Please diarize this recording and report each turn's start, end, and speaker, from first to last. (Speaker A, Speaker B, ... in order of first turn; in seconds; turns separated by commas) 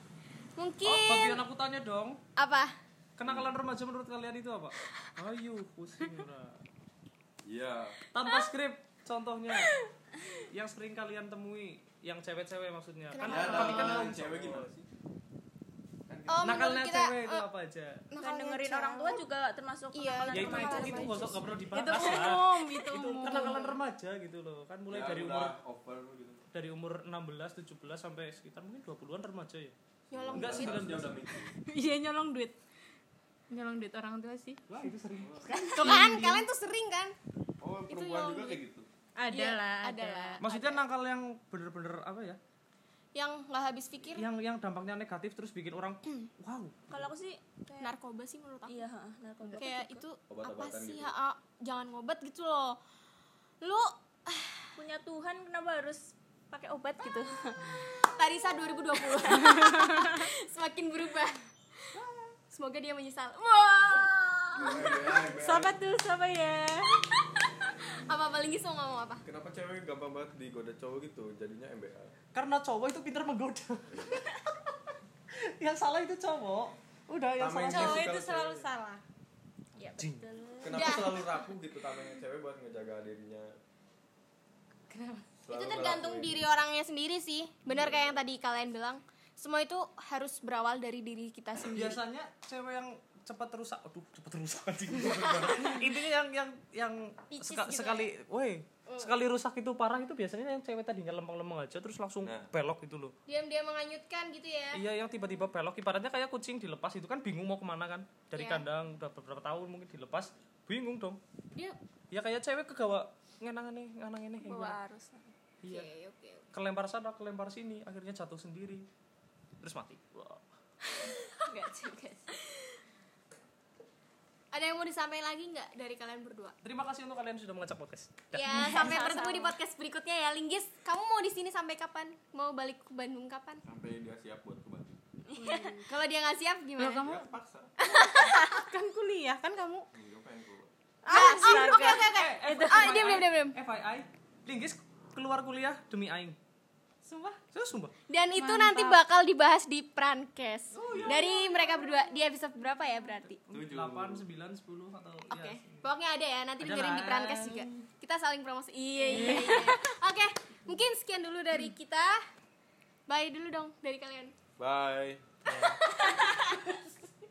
Speaker A: 0.6-1.4, Speaker B: 0.8-2.2, Speaker A: 2.4-2.8, Speaker B: 3.2-6.6, Speaker C: 3.2-3.5, Speaker C: 7.4-8.0, Speaker B: 8.1-9.8, Speaker B: 10.5-14.7, Speaker A: 13.1-14.1, Speaker C: 13.2-14.9, Speaker C: 16.1-16.8, Speaker A: 16.3-17.4, Speaker B: 16.4-18.0, Speaker A: 18.1-19.3, Speaker D: 18.2-21.3, Speaker A: 19.9-21.6, Speaker B: 20.3-25.6, Speaker E: 20.7-21.0, Speaker E: 21.7-23.8, Speaker C: 24.9-26.4, Speaker B: 26.5-29.8, Speaker A: 30.1-30.9, Speaker C: 30.1-31.6, Speaker B: 30.3-31.2, Speaker E: 31.5-32.6, Speaker E: 33.5-34.6, Speaker B: 34.7-36.4, Speaker E: 35.6-36.3, Speaker A: 35.7-37.1, Speaker C: 37.6-38.9, Speaker A: 37.9-38.6, Speaker E: 39.2-40.4, Speaker A: 39.3-40.8, Speaker B: 40.4-42.4, Speaker A: 43.1-44.2, Speaker B: 44.1-47.1, Speaker D: 46.9-48.0, Speaker A: 47.8-48.8, Speaker D: 48.7-50.0, Speaker A: 49.5-52.8, Speaker C: 50.3-51.1, Speaker A: 53.6-54.7, Speaker D: 54.8-57.8, Speaker A: 58.0-62.0, Speaker D: 59.3-60.2, Speaker A: 62.5-65.3, Speaker C: 64.5-65.8, Speaker E: 65.3-66.7, Speaker A: 67.7-69.2, Speaker C: 69.2-72.1, Speaker B: 72.3-74.3, Speaker B: 75.6-78.1, Speaker C: 77.4-78.7, Speaker E: 77.7-79.0, Speaker D: 79.8-81.1, Speaker B: 80.0-80.3, Speaker C: 80.6-83.5, Speaker A: 80.6-81.4, Speaker E: 84.9-85.3, Speaker C: 85.4-86.5, Speaker A: 85.5-92.0, Speaker C: 87.7-88.2, Speaker B: 91.7-103.1, Speaker A: 95.0-95.8, Speaker A: 97.3-98.1, Speaker A: 98.9-99.2, Speaker C: 102.2-102.5, Speaker A: 103.3-104.8, Speaker B: 104.7-111.2, Speaker A: 108.3-108.6, Speaker B: 112.1-114.8, Speaker D: 114.4-115.3, Speaker B: 115.6-115.9, Speaker A: 115.6-116.5, Speaker B: 116.5-118.9, Speaker B: 119.6-120.4, Speaker D: 121.5-121.8, Speaker A: 121.5-122.3, Speaker A: 124.5-126.5, Speaker B: 126.6-129.1, Speaker A: 128.3-133.6, Speaker E: 128.5-129.5, Speaker D: 128.8-129.3, Speaker C: 133.6-135.0, Speaker D: 135.3-135.8, Speaker E: 135.4-135.9, Speaker A: 135.8-137.2, Speaker E: 136.8-137.2, Speaker C: 137.0-137.8, Speaker A: 137.8-138.6, Speaker E: 138.4-139.9, Speaker C: 139.9-140.7, Speaker E: 141.1-141.8, Speaker D: 141.1-143.1, Speaker A: 141.1-143.6, Speaker B: 142.1-146.4, Speaker E: 147.0-147.4, Speaker B: 147.5-147.9, Speaker A: 148.1-153.4, Speaker E: 148.3-149.0, Speaker B: 150.7-151.3, Speaker C: 150.9-151.2, Speaker E: 151.0-151.9, Speaker B: 153.4-155.8, Speaker C: 153.5-154.2, Speaker A: 155.3-162.2, Speaker B: 156.6-157.8, Speaker B: 159.1-159.8, Speaker A: 163.1-164.3, Speaker C: 164.6-165.4, Speaker B: 165.5-165.8, Speaker A: 165.5-166.8